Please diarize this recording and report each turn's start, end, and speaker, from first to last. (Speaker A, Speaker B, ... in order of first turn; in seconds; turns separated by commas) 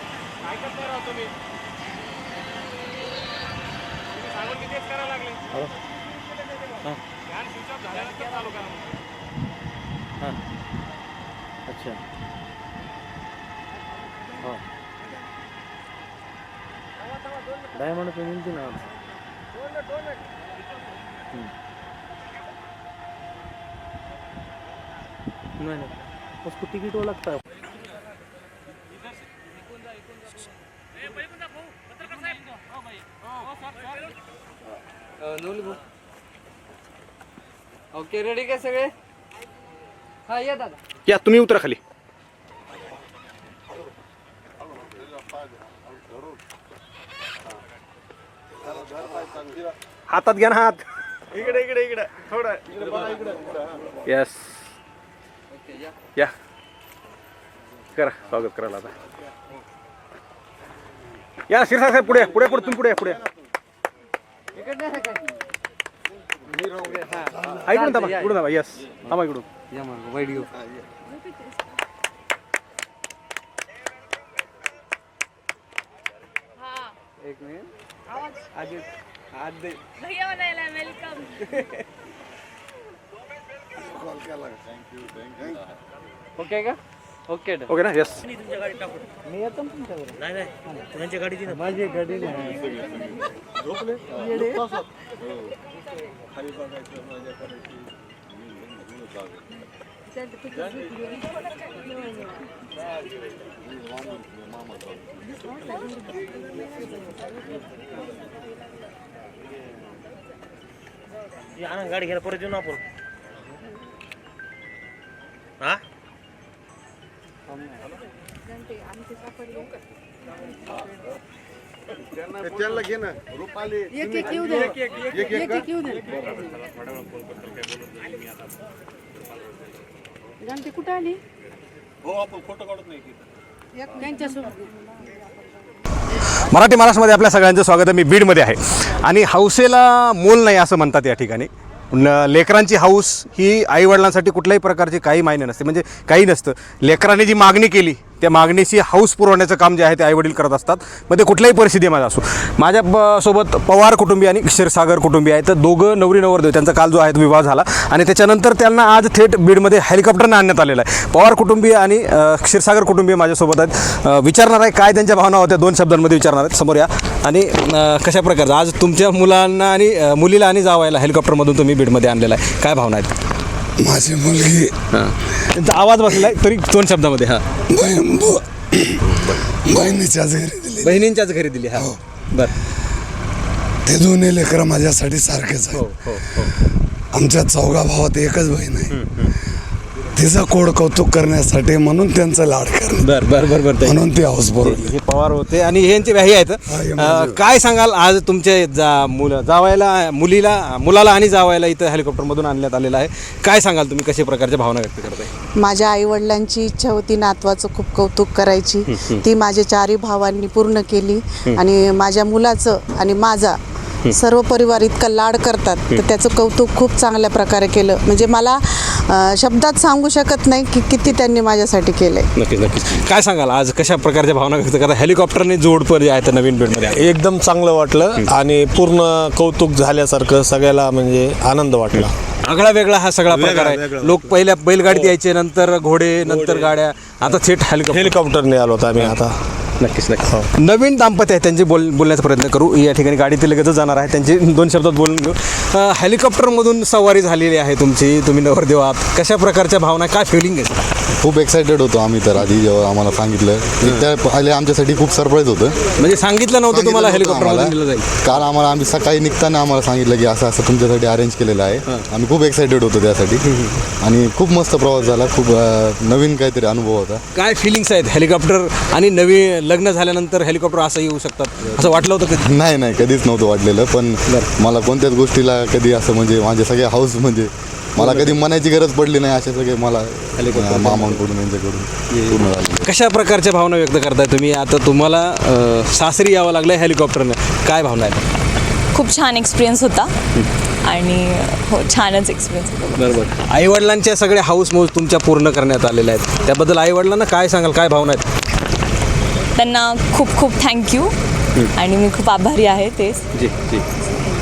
Speaker A: 0.7-1.0, Speaker B: 11.7-12.0, Speaker C: 17.8-18.2, Speaker B: 18.2-18.6, Speaker B: 35.3-35.8, Speaker B: 38.0-38.9, Speaker B: 40.3-40.8, Speaker A: 41.1-41.8, Speaker A: 50.1-52.8, Speaker A: 54.1-54.7, Speaker A: 58.0-58.9, Speaker A: 61.5-63.2, Speaker B: 66.7-68.3, Speaker A: 67.6-69.5, Speaker B: 69.8-70.5, Speaker B: 77.2-77.7, Speaker B: 79.5-79.8, Speaker B: 86.4-87.7, Speaker A: 87.7-88.3, Speaker B: 89.4-90.1, Speaker C: 90.2-91.6, Speaker B: 91.6-92.6, Speaker B: 94.3-94.6, Speaker C: 111.6-112.8, Speaker D: 124.1-124.7, Speaker D: 125.3-126.0, Speaker D: 130.5-131.2, Speaker D: 134.2-134.5, Speaker A: 136.5-173.2, Speaker E: 173.8-174.8, Speaker A: 174.9-177.4, Speaker E: 177.7-181.0, Speaker A: 180.8-182.5, Speaker E: 183.8-185.9, Speaker A: 185.7-186.5, Speaker E: 187.1-189.0, Speaker A: 188.9-189.3, Speaker E: 190.2-193.2, Speaker A: 193.0-194.1, Speaker E: 193.8-194.9, Speaker A: 194.6-205.3, Speaker E: 196.7-197.4, Speaker F: 205.6-222.3, Speaker A: 208.9-209.2, Speaker A: 222.4-227.1, Speaker G: 226.9-232.1, Speaker A: 231.9-238.2, Speaker G: 233.4-234.1, Speaker G: 236.3-236.7, Speaker G: 237.9-239.3, Speaker A: 239.8-250.8, Speaker H: 251.2-255.8, Speaker A: 256.0-258.1, Speaker H: 256.7-263.4, Speaker A: 263.5-263.8, Speaker H: 264.0-267.2, Speaker A: 267.4-272.5, Speaker H: 272.4-282.9, Speaker A: 278.0-278.4, Speaker A: 280.4-281.3, Speaker A: 282.1-288.2, Speaker I: 288.9-290.1, Speaker I: 290.9-293.1, Speaker A: 293.0-298.3, Speaker I: 299.6-301.1, Speaker I: 301.8-303.2, Speaker A: 303.3-303.8